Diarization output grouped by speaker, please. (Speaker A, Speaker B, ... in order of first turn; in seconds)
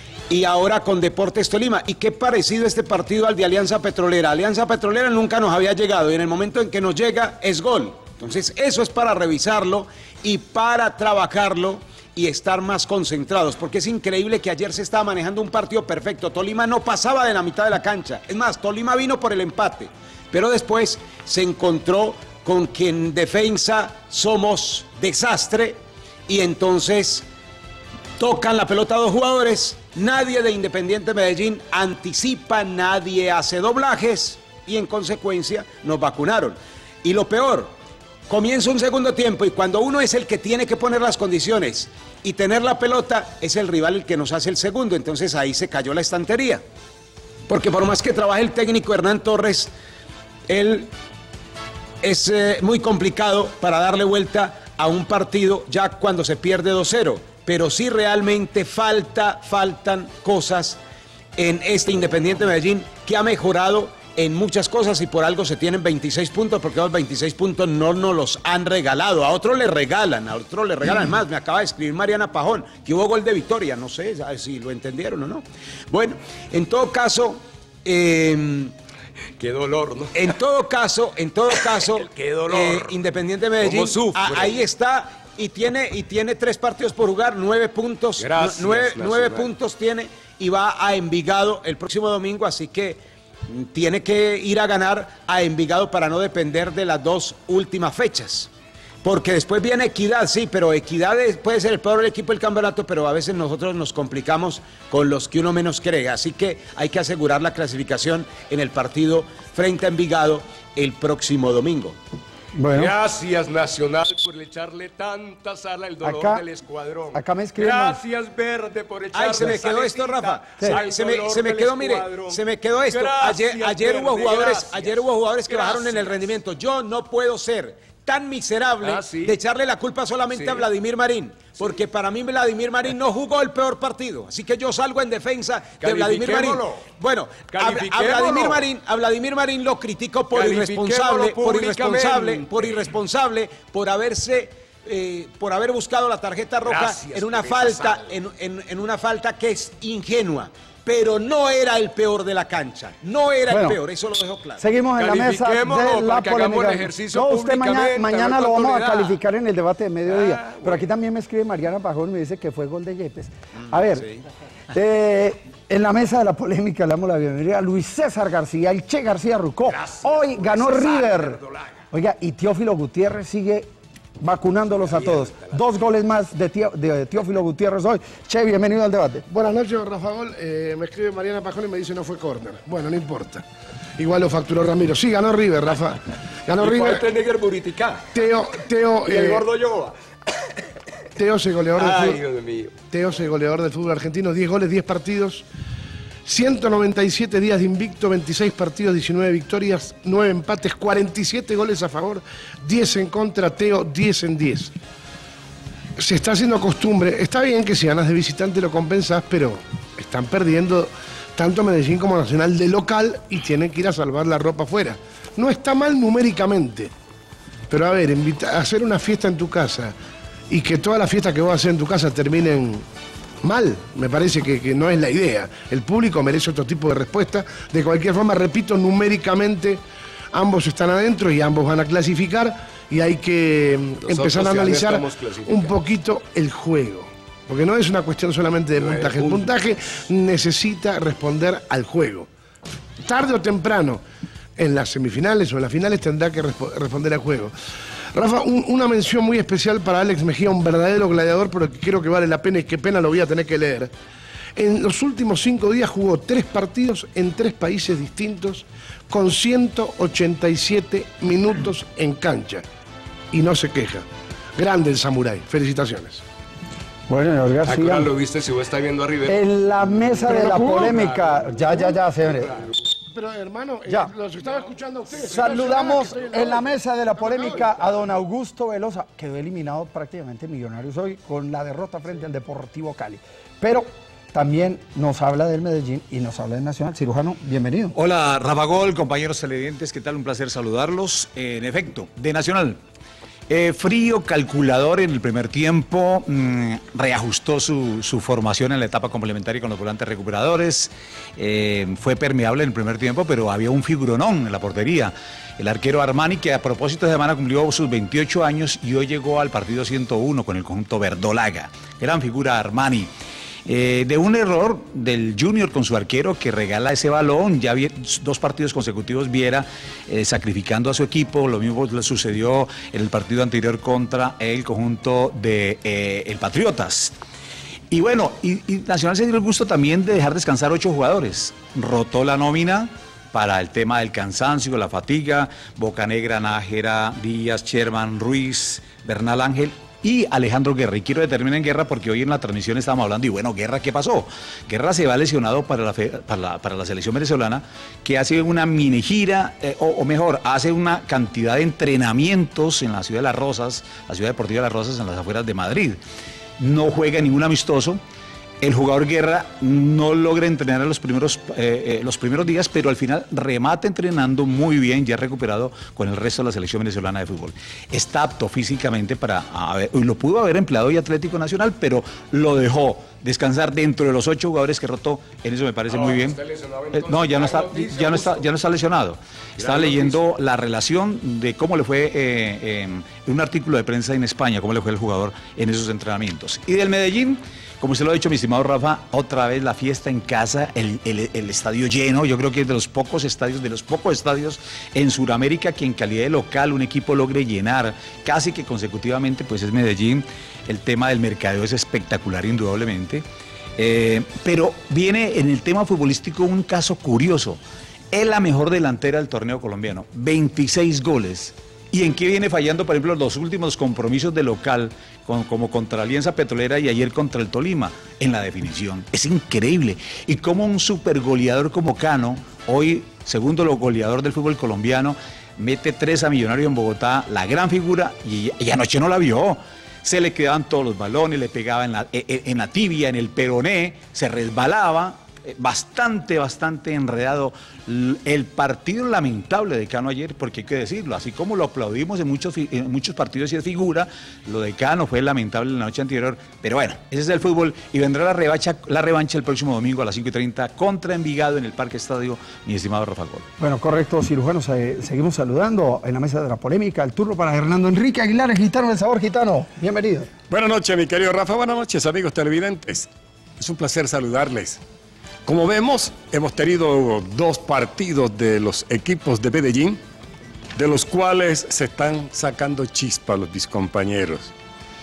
Speaker A: 0.3-25.8, 26.3-27.2, 28.2-37.7, 38.3-46.6, 47.5-49.7, 50.5-50.9, 52.0-60.8, 61.4-78.7, 80.1-98.5, 99.0-112.0, 119.1-154.6
Speaker B: 79.4-80.1, 81.7-83.0, 83.6-84.6, 88.2-89.5, 112.7-126.2, 128.8-129.4, 130.3-130.7, 135.8-136.9, 137.4-138.7, 140.3-142.9, 146.6-148.2, 155.0-159.2, 160.1-160.8, 169.7-171.8, 174.7-175.6, 186.6-188.3, 189.0-189.9, 191.7-192.8, 234.0-235.8, 238.7-239.5, 267.6-271.8, 272.3-272.6, 375.9-378.5, 379.6-380.2
Speaker C: 112.5-112.9, 116.0-116.4, 117.1-118.0, 153.5-153.8, 154.6-164.1, 164.7-171.4, 171.9-173.7, 174.2-179.2, 267.1-268.1, 269.3-272.6, 275.2-287.9, 453.6-460.3
Speaker D: 179.3-183.4, 184.0-187.0, 188.1-189.4, 191.2-192.2, 192.9-195.4, 196.2-204.7, 206.0-216.9, 217.7-219.9, 220.5-222.8, 223.4-229.8, 230.3-242.3, 243.0-244.0, 244.6-247.5, 248.1-253.9, 254.6-262.6, 263.3-264.0, 264.6-266.2, 273.1-277.7
Speaker E: 287.9-292.8, 293.5-313.1, 313.6-327.1, 327.9-356.0, 356.6-358.0, 358.6-376.4, 377.0-403.2, 403.8-407.6, 408.1-453.4
Speaker F: 460.5-464.8, 465.4-470.0, 470.8-474.5